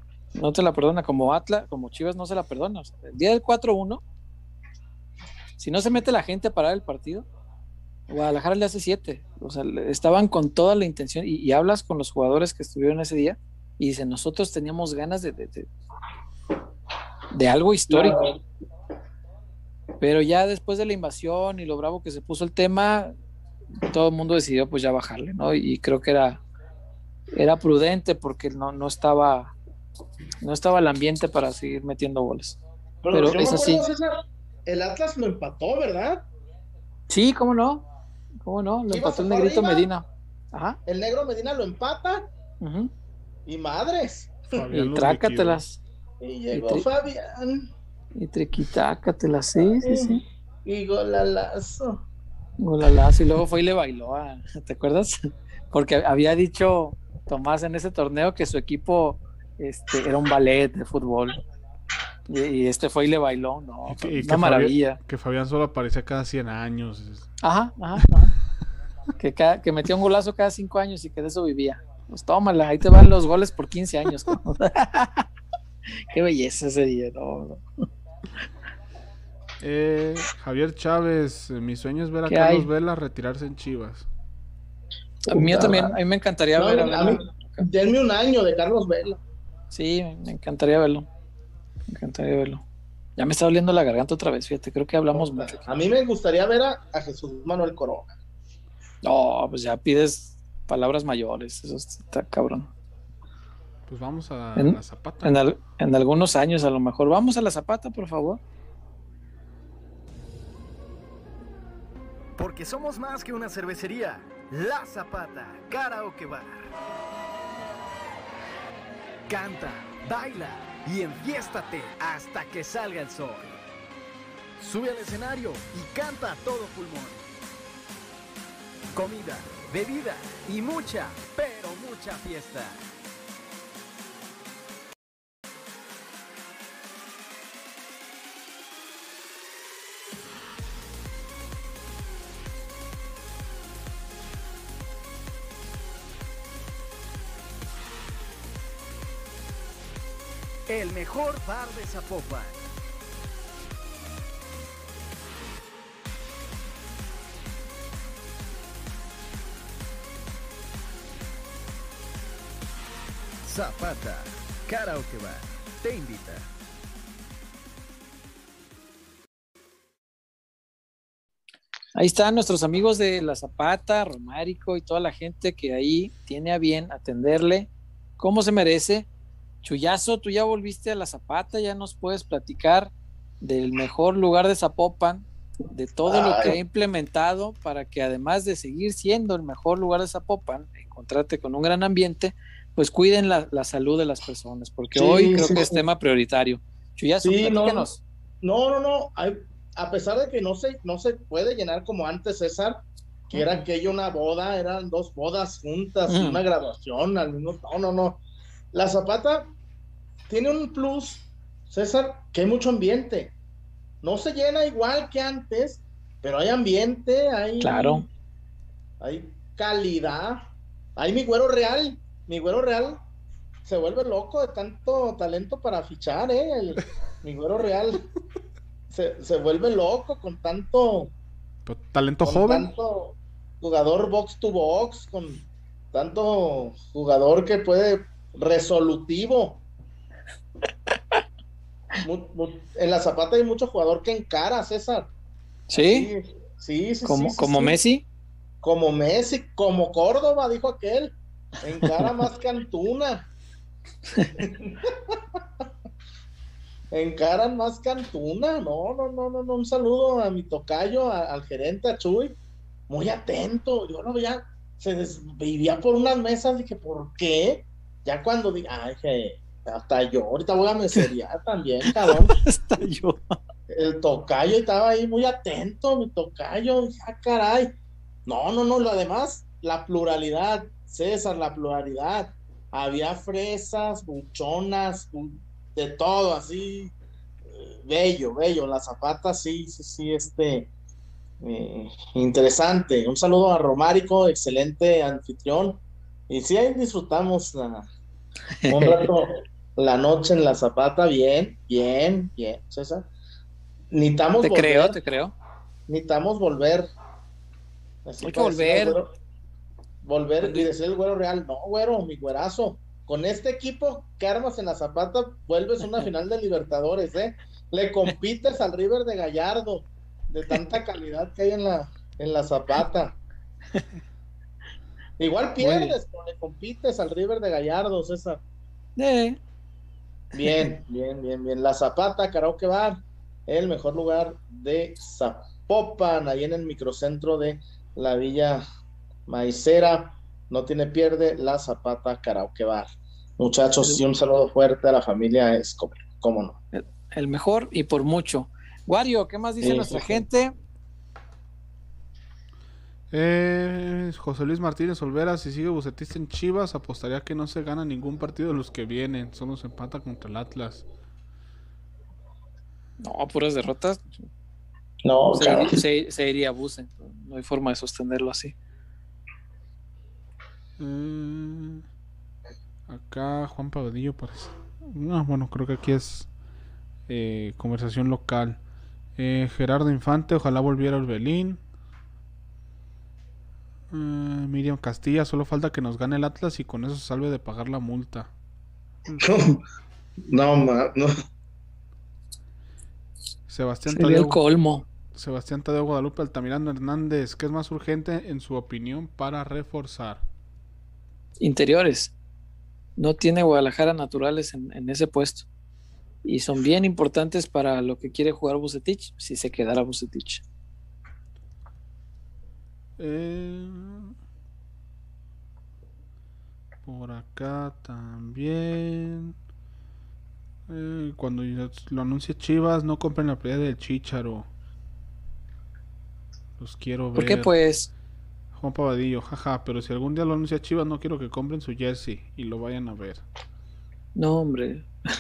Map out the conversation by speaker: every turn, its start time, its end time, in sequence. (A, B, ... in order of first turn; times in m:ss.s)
0:00.4-0:04.0 A
0:05.6-0:07.3 A
0:08.1-0:15.7 A
0:17.3-0:18.2 A
0:17.9-0:18.4 B
0:20.0-0:23.1 A
0:23.9-0:26.4 A
0:27.3-0:29.6 A
0:30.4-0:32.6 A
0:33.0-0:36.2 B
0:33.1-0:33.9 A
0:37.1-0:37.8 A
0:38.4-0:40.8 A
0:38.9-0:39.9 B
0:40.9-0:42.3 B
0:42.6-0:42.9 A
0:43.5-0:44.5 B
0:44.5-0:45.6 C
0:44.7-0:45.8 A
0:46.2-0:47.7 B
0:46.5-0:46.9 A
0:48.2-0:50.2 A
0:49.6-0:52.0 B
0:52.6-1:01.4 A
1:02.3-1:05.0 A
1:03.9-1:07.3 C
1:07.4-1:08.3 A
1:09.2-1:15.3 A
1:16.1-1:17.6 A
1:19.6-1:24.1 C
1:22.3-1:22.7 A
1:25.3-1:25.9 B
1:25.3-1:27.7 A
1:26.6-1:29.2 B
1:29.7-1:31.1 A
1:31.9-1:32.6 A
1:33.2-1:35.6 A
1:35.1-1:38.2 B
1:39.0-1:42.7 A
1:43.9-1:45.4 C
1:44.6-1:48.4 A
1:52.4-1:56.7 D
1:59.3-2:03.5 D
2:04.6-2:07.2 D
2:08.9-2:12.8 D
2:30.7-2:32.6 D
2:43.4-2:46.5 D
2:52.0-2:59.1 A
2:59.6-3:18.0 A
3:06.1-3:06.6 B
3:15.0-3:15.8 B
3:17.2-3:17.9 B
3:18.4-3:28.2 B
3:23.3-3:23.6 A
3:26.1-3:26.4 A
3:28.7-3:29.4 B
3:30.3-3:33.4 B
3:34.0-3:38.1 B
3:37.6-3:38.1 A
3:39.0-3:40.4 B
3:41.0-3:43.0 B
3:43.6-3:48.1 B
3:48.9-3:51.1 B
3:51.6-3:52.7 C
3:52.2-3:59.6 B
4:02.0-4:05.1 B
4:05.7-4:06.1 A
4:05.8-4:07.8 B
4:07.0-4:08.0 A
4:08.6-4:13.3 B
4:12.0-4:12.2 A
4:14.4-4:15.2 B
4:16.9-4:22.4 B
4:22.9-4:32.4 B
4:32.0-4:33.4 A
4:33.7-4:37.7 B
4:38.3-4:46.9 B
4:47.6-4:50.7 B
4:51.4-4:57.8 B
4:58.6-4:59.1 A
4:58.7-5:03.1 B
5:03.9-5:05.0 B
5:04.4-5:05.4 A
5:05.9-5:06.9 B
5:08.1-5:09.1 B
5:08.2-5:09.0 A
5:10.0-5:23.2 B
5:10.4-5:10.7 A
5:25.2-5:28.4 B
5:25.6-5:26.0 A
5:29.0-5:29.4 A
5:30.3-5:38.6 B
5:39.3-5:42.9 B
5:43.4-5:46.6 B
5:46.7-5:50.5 A
5:49.6-5:50.2 B
5:53.1-6:00.8 C
6:03.0-6:04.1 A
6:05.0-6:05.8 B
6:05.3-6:08.5 A
6:10.8-6:11.8 C
6:12.9-6:16.3 C
6:17.1-6:18.6 C
6:19.2-6:21.6 C
6:23.9-6:28.3 C
6:29.2-6:29.6 B
6:30.3-6:31.1 B
6:33.5-6:34.4 C
6:33.9-6:34.9 A
6:35.1-6:40.2 C
6:41.4-6:42.1 A
6:43.0-6:45.5 A
6:46.2-6:50.4 A
6:53.0-6:54.2 C
6:56.8-6:59.4 C
7:00.7-7:04.5 C
7:06.6-7:07.5 C
7:07.2-7:07.9 A
7:08.6-7:13.2 C
7:14.2-7:14.9 A